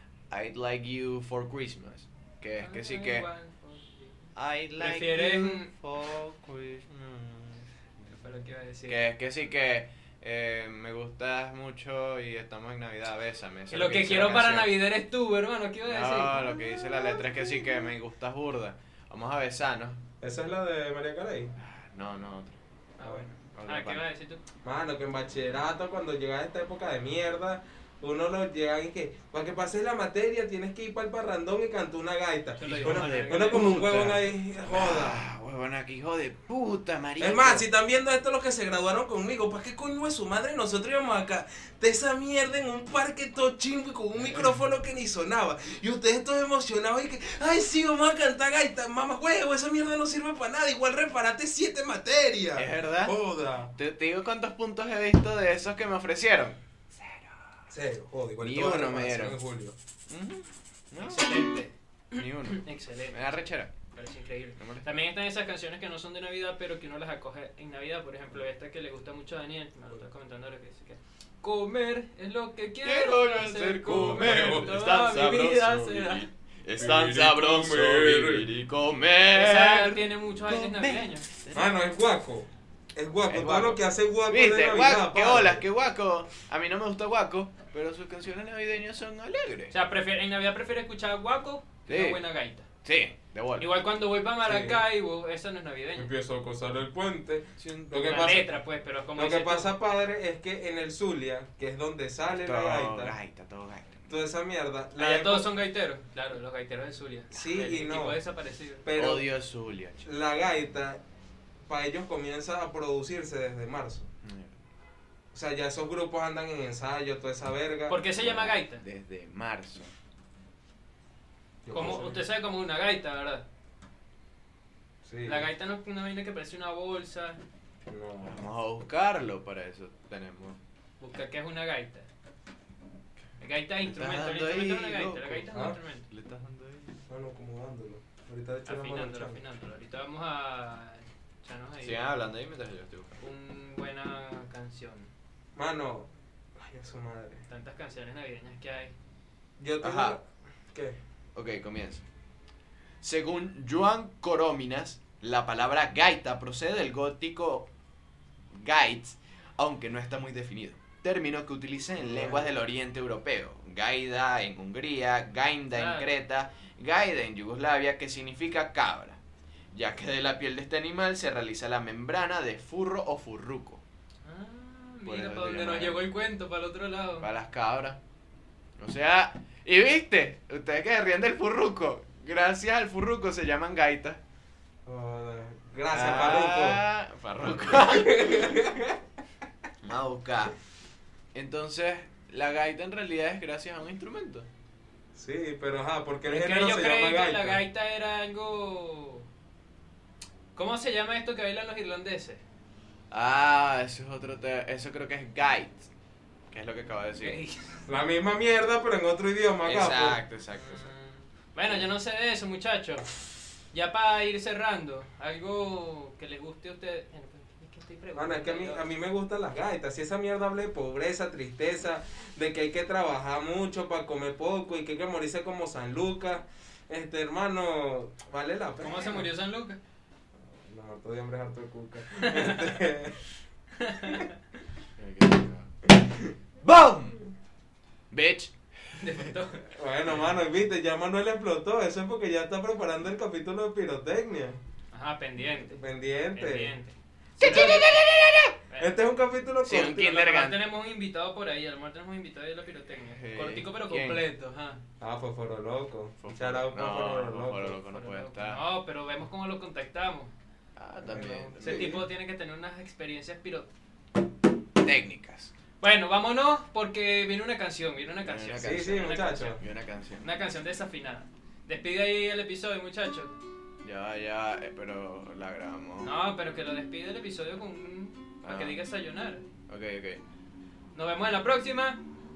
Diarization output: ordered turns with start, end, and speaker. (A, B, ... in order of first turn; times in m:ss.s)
0:00.3-0:03.3 A
0:02.6-0:04.2 B
0:04.4-0:08.1 A
0:04.8-0:05.7 B
0:08.1-0:09.0 B
0:08.9-0:14.8 A
0:13.7-0:16.4 B
0:15.9-0:20.0 A
0:20.2-0:21.5 C
0:21.6-0:22.5 A
0:23.0-0:24.4 B
0:23.0-0:23.3 C
0:23.5-0:24.0 A
0:24.6-0:35.2 C
0:32.6-0:34.1 B
0:32.6-0:37.6 A
0:37.2-0:53.7 C
0:44.2-0:44.5 A
0:52.6-0:53.2 A
0:53.8-0:56.6 A
0:57.7-0:59.7 C
0:58.4-0:59.4 A
1:00.1-1:01.5 A
1:01.0-1:16.3 B
1:02.2-1:03.7 A
1:04.6-1:04.8 A
1:12.8-1:21.8 A
1:13.9-1:14.7 C
1:16.8-1:18.5 C
1:19.3-1:21.2 B
1:21.5-1:25.6 C
1:23.2-1:29.7 A
1:29.7-1:32.6 B
1:31.9-1:32.2 A
1:32.8-1:33.7 A
1:33.6-1:36.1 B
1:34.4-1:34.8 C
1:35.9-1:38.5 C
1:37.6-1:38.4 A
1:38.0-1:39.7 B
1:39.2-1:43.2 C
1:42.4-1:44.1 A
1:44.1-1:45.5 C
1:45.0-1:48.8 B
1:47.3-1:48.2 C
1:48.8-1:49.3 C
1:48.9-1:50.0 A
1:50.0-1:51.0 C
1:51.7-1:54.1 C
1:54.2-1:54.6 A
1:55.3-1:58.0 C
1:57.9-1:58.8 B
1:58.2-1:59.9 A
2:01.6-2:02.2 C
2:01.7-2:03.4 B
2:05.0-2:05.5 C
2:05.2-2:07.4 B
2:07.8-2:08.5 C
2:08.2-2:10.6 A
2:11.0-2:12.1 B
2:13.4-2:16.1 B
2:13.8-2:17.0 A
2:17.1-2:19.4 C
2:18.6-2:22.0 B
2:21.8-2:23.2 A
2:23.2-2:25.1 B
2:25.5-2:27.4 C
2:27.5-2:28.9 B
2:29.6-2:31.0 C
2:29.8-2:30.2 A
2:31.3-2:32.0 A
2:33.0-2:37.7 A
2:38.5-2:49.2 A
2:42.0-2:42.5 C
2:45.7-2:46.1 B
2:49.7-2:53.8 A
2:54.2-2:57.3 B
2:55.0-2:56.0 A
2:57.2-2:58.0 A
2:58.8-3:04.2 A
3:04.8-3:06.8 C
3:05.9-3:08.5 A
3:07.6-3:09.0 C
3:09.8-3:10.6 A
3:11.3-3:14.5 A
3:15.1-3:17.6 C
3:16.2-3:19.2 B
3:20.5-3:22.4 B
3:23.1-3:25.9 A
3:26.5-3:27.4 A
3:27.2-3:27.9 B
3:27.9-3:30.2 C
3:29.6-3:30.9 A
3:30.5-3:33.1 B
3:33.7-3:38.9 B
3:38.1-3:49.3 C
3:48.8-3:49.8 B
3:50.4-3:53.2 C
3:52.1-3:52.8 B
3:53.8-3:54.3 B
3:55.0-3:55.7 A
3:56.6-3:57.2 A
3:58.1-3:59.3 A
3:59.0-3:59.6 B
3:59.7-4:04.6 C
4:00.1-4:00.3 A
4:04.9-4:05.8 B
4:05.7-4:06.7 C
4:06.3-4:07.9 B
4:07.4-4:08.6 A
4:07.5-4:08.0 C
4:08.7-4:09.0 B
4:08.8-4:10.2 C
4:09.6-4:10.6 A
4:09.8-4:14.8 B
4:13.1-4:14.2 A
4:15.0-4:17.8 C
4:16.2-4:18.6 A
4:17.9-4:20.3 B
4:20.8-4:22.0 A
4:21.0-4:22.0 C
4:21.6-4:23.7 B
4:24.8-4:25.5 A
4:25.8-4:29.6 B
4:28.2-4:30.3 A
4:28.6-4:29.6 C
4:30.2-4:33.4 B
4:33.8-4:36.1 A
4:36.0-4:39.4 B
4:38.4-4:38.8 A
4:39.7-4:40.2 A
4:40.9-4:42.0 B